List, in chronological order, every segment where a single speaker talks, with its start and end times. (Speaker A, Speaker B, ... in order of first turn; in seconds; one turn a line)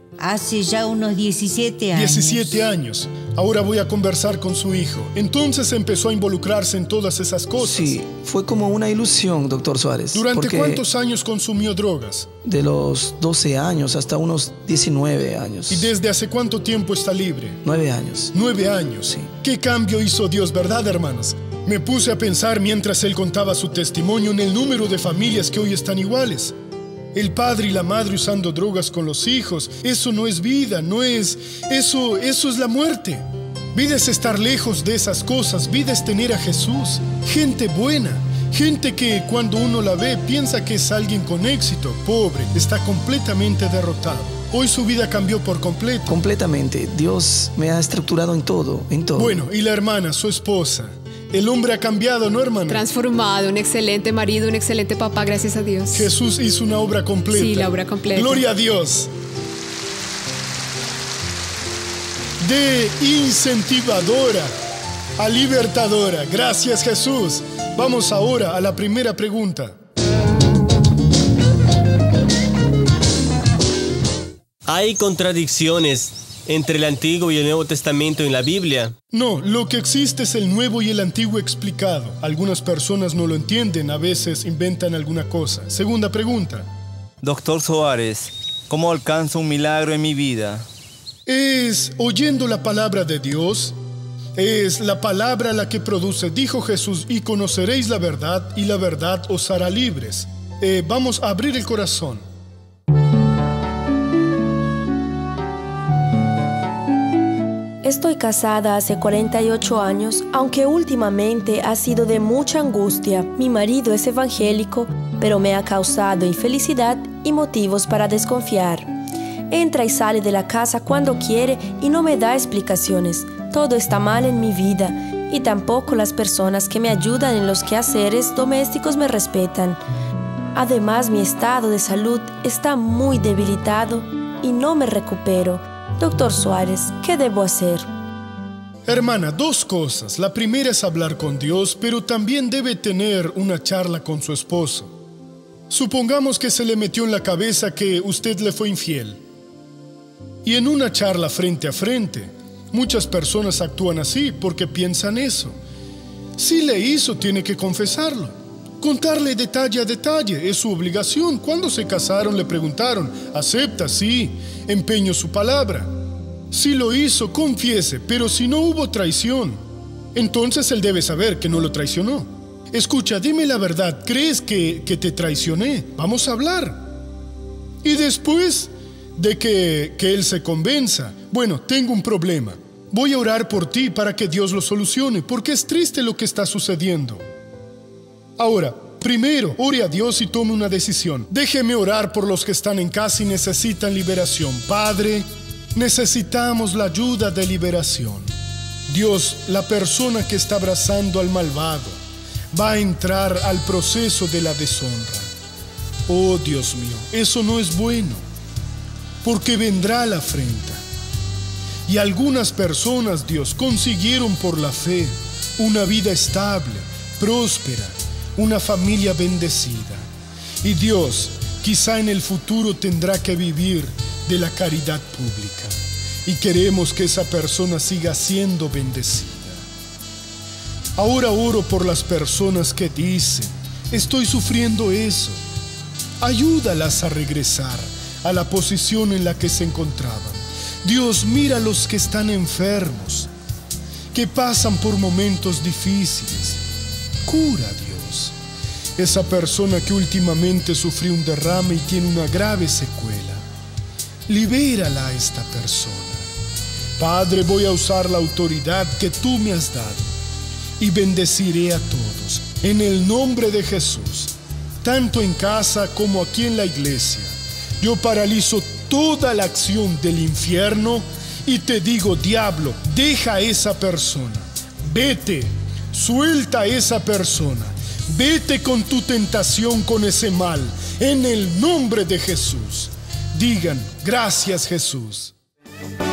Speaker A: 0.2-2.6
Speaker B: 1.9-8.0
Speaker C: 7.6-10.8
Speaker B: 10.1-12.3
Speaker C: 12.4-15.9
Speaker B: 15.7-17.6
Speaker C: 17.6-18.3
Speaker B: 18.3-26.5
Speaker B: 27.1-46.1
Speaker C: 46.1-49.4
Speaker B: 49.1-52.9
Speaker D: 52.7-56.1
Speaker B: 55.9-59.1
Speaker D: 57.3-58.4
Speaker B: 62.4-64.5
Speaker B: 65.2-69.8
Speaker E: 74.7-78.9
Speaker B: 79.1-86.7
Speaker F: 87.2-90.7
Speaker B: 91.2-93.8
Speaker B: 94.3-102.2
Speaker G: 107.8-118.9
Speaker G: 119.5-129.8
Speaker G: 130.5-137.9
Speaker B: 138.9-144.9
Speaker B: 145.7-149.2
Speaker B: 150.4-155.6
Speaker B: 156.3-165.9
Speaker B: 166.5-169.6
Speaker B: 170.1-176.9
Speaker B: 177.8-187.2
Speaker B: 188.4-198.3
Speaker B: 198.9-202.0
Speaker B: 202.5-205.3
Speaker B: 206.1-208.2
Speaker B: 209.2-210.8
Speaker B: 211.8-220.1
Speaker B: 220.6-229.7
Speaker B: 230.9-235.4
Speaker B: 236.2-243.3
Speaker B: 244.1-246.6
Speaker B: 247.2-248.3
Speaker B: 249.0-253.4
Speaker B: 254.3-256.3
Speaker B: 257.0-260.1
Speaker B: 260.8-285.3